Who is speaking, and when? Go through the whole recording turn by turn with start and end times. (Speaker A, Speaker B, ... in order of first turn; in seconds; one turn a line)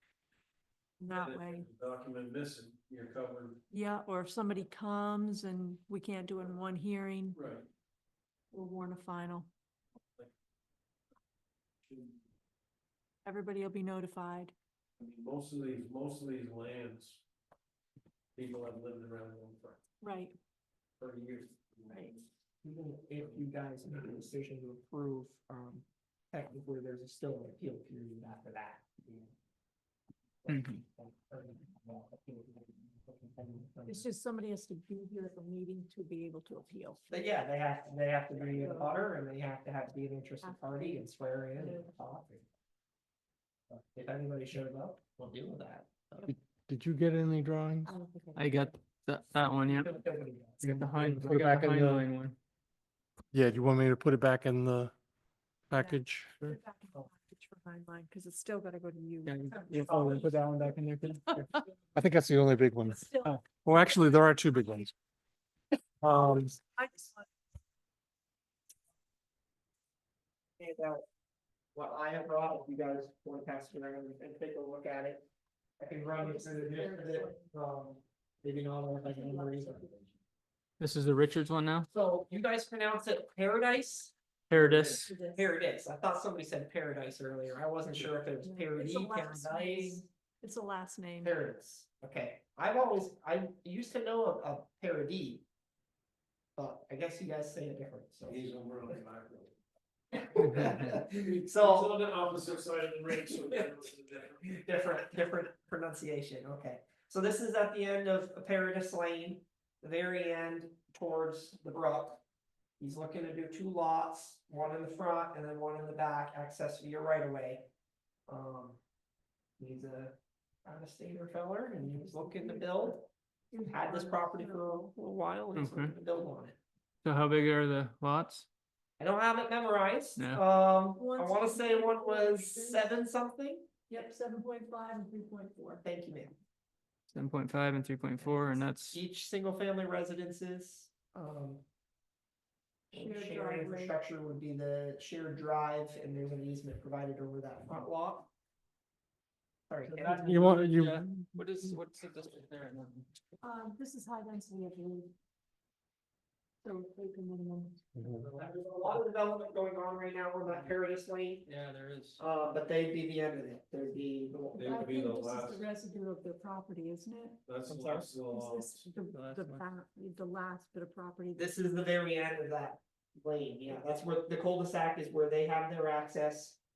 Speaker A: 1.0-1.7
Speaker B: 1.1-3.6
Speaker A: 3.7-7.4
Speaker B: 7.4-7.7
Speaker A: 8.5-9.5
Speaker B: 11.9-12.2
Speaker A: 13.2-14.5
Speaker B: 15.0-17.2
Speaker B: 18.4-19.8
Speaker A: 20.0-20.4
Speaker B: 21.0-22.2
Speaker A: 21.9-22.2
Speaker C: 22.6-29.3
Speaker C: 30.4-34.0
Speaker D: 30.5-30.8
Speaker A: 33.9-37.1
Speaker C: 37.1-42.5
Speaker A: 38.4-39.0
Speaker A: 40.4-41.9
Speaker C: 43.7-46.3
Speaker E: 46.3-47.9
Speaker A: 47.9-48.7
Speaker D: 48.4-49.9
Speaker C: 49.7-50.9
Speaker E: 50.6-52.0
Speaker D: 50.6-52.4
Speaker E: 53.3-54.9
Speaker E: 55.7-56.4
Speaker A: 55.7-60.1
Speaker D: 59.2-61.6
Speaker C: 59.9-60.8
Speaker E: 62.0-64.9
Speaker A: 62.9-63.4
Speaker E: 66.0-66.6
Speaker A: 66.8-67.3
Speaker C: 70.6-71.0
Speaker C: 71.8-75.2
Speaker C: 75.8-79.8
Speaker A: 76.2-77.5
Speaker A: 79.0-80.2
Speaker D: 80.8-81.9
Speaker C: 81.9-90.1
Speaker D: 84.5-85.1
Speaker A: 85.0-85.4
Speaker A: 88.4-91.3
Speaker C: 91.2-95.5
Speaker C: 96.6-98.5
Speaker B: 98.2-99.5
Speaker C: 100.1-102.0
Speaker B: 100.5-104.5
Speaker C: 103.2-103.7
Speaker C: 104.5-112.2
Speaker C: 112.8-117.7
Speaker C: 118.3-118.8
Speaker C: 119.6-123.1
Speaker A: 121.9-122.8
Speaker A: 123.5-124.9
Speaker C: 123.6-126.6
Speaker D: 125.5-125.9
Speaker D: 127.0-128.5
Speaker C: 129.0-133.7
Speaker D: 130.2-130.4
Speaker A: 131.0-132.9
Speaker A: 133.9-135.8
Speaker C: 135.8-136.3
Speaker D: 137.1-139.0
Speaker C: 138.2-141.7
Speaker C: 142.9-148.3
Speaker A: 142.9-144.0
Speaker C: 149.7-150.4
Speaker D: 149.8-153.1
Speaker E: 150.2-151.4
Speaker A: 153.4-155.1
Speaker A: 156.6-157.8
Speaker E: 157.9-158.3
Speaker D: 158.2-159.0
Speaker C: 158.3-161.4
Speaker D: 161.4-162.2
Speaker C: 162.2-164.9
Speaker A: 164.5-167.5
Speaker B: 164.6-165.6
Speaker B: 167.5-168.9
Speaker C: 167.7-168.1
Speaker A: 168.3-171.5
Speaker D: 169.1-169.6
Speaker C: 171.4-176.6